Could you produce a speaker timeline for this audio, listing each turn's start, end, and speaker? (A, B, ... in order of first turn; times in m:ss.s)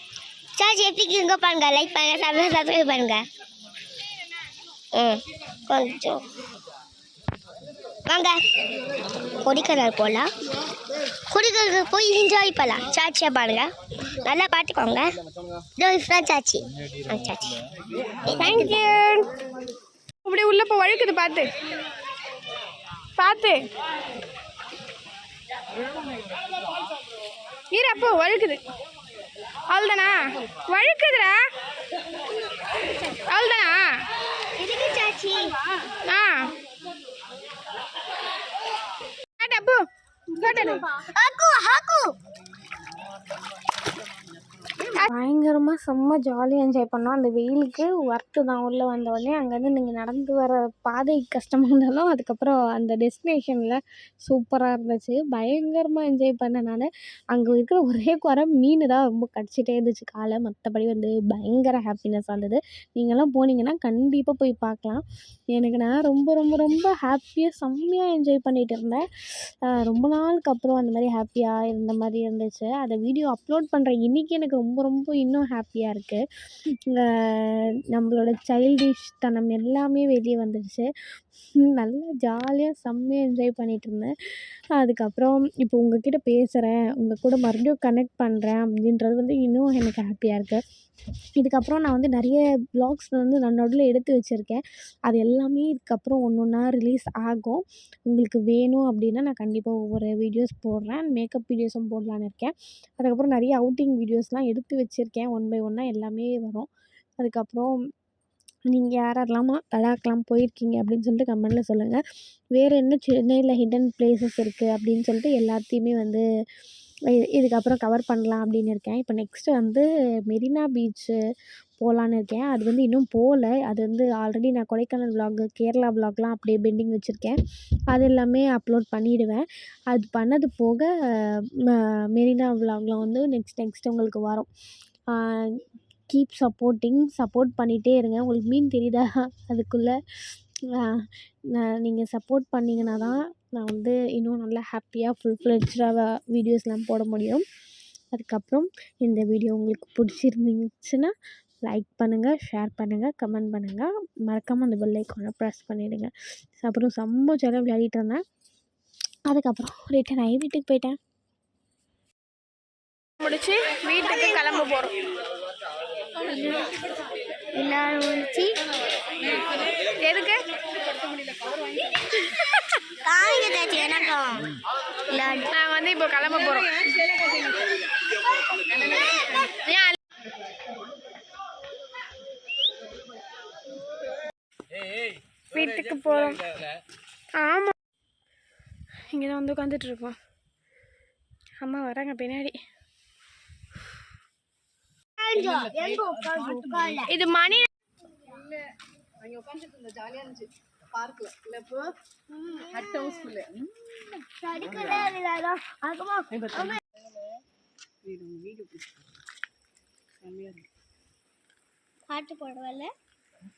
0:00.6-0:03.2 A
0:04.9-0:06.2 A
0:08.1-0:08.4 A
0:09.4-0:10.3 A
0:11.3-0:15.2 A
0:15.8-0:17.6 A
0:18.2-0:18.7 A
0:18.3-0:19.3 B
0:20.2-0:21.5 B
0:23.2-0:23.6 B
0:27.7-0:28.6 B
0:29.7-0:31.4 B
0:33.2-0:33.9 B
0:34.6-0:35.5 A
0:36.0-0:36.5 B
0:39.4-0:39.8 B
0:40.3-0:40.8 B
0:40.4-0:42.1 A
0:45.0-1:09.0 C
1:09.6-1:16.2 C
1:16.9-1:20.9 C
1:21.7-1:24.1 C
1:24.7-1:30.6 C
1:31.4-1:46.7 C
1:47.2-1:47.7 C
1:48.7-1:52.0 C
1:52.5-1:56.2 C
1:57.1-2:01.2 C
2:01.8-2:07.4 C
2:07.9-2:14.5 C
2:15.1-2:19.9 C
2:20.7-2:27.4 C
2:28.1-2:31.1 C
2:31.6-2:36.1 C
2:36.6-2:38.2 C
2:39.3-2:41.0 C
2:43.2-2:44.9 B
2:44.0-2:44.6 A
2:47.5-2:48.5 A
2:50.0-2:50.4 B
2:52.2-2:52.6 B
2:53.0-2:54.5 A
2:55.1-2:55.5 A
2:55.5-2:56.8 B
2:58.7-2:59.5 A
2:59.6-3:00.0 B
3:05.5-3:06.5 B
3:07.4-3:07.7 B
3:09.1-3:10.2 B
3:11.6-3:12.6 B
3:15.2-3:17.1 A
3:17.1-3:17.7 B
3:22.3-3:23.5 A
3:24.1-3:26.8 A
3:28.2-3:28.6 B
3:32.1-3:32.9 A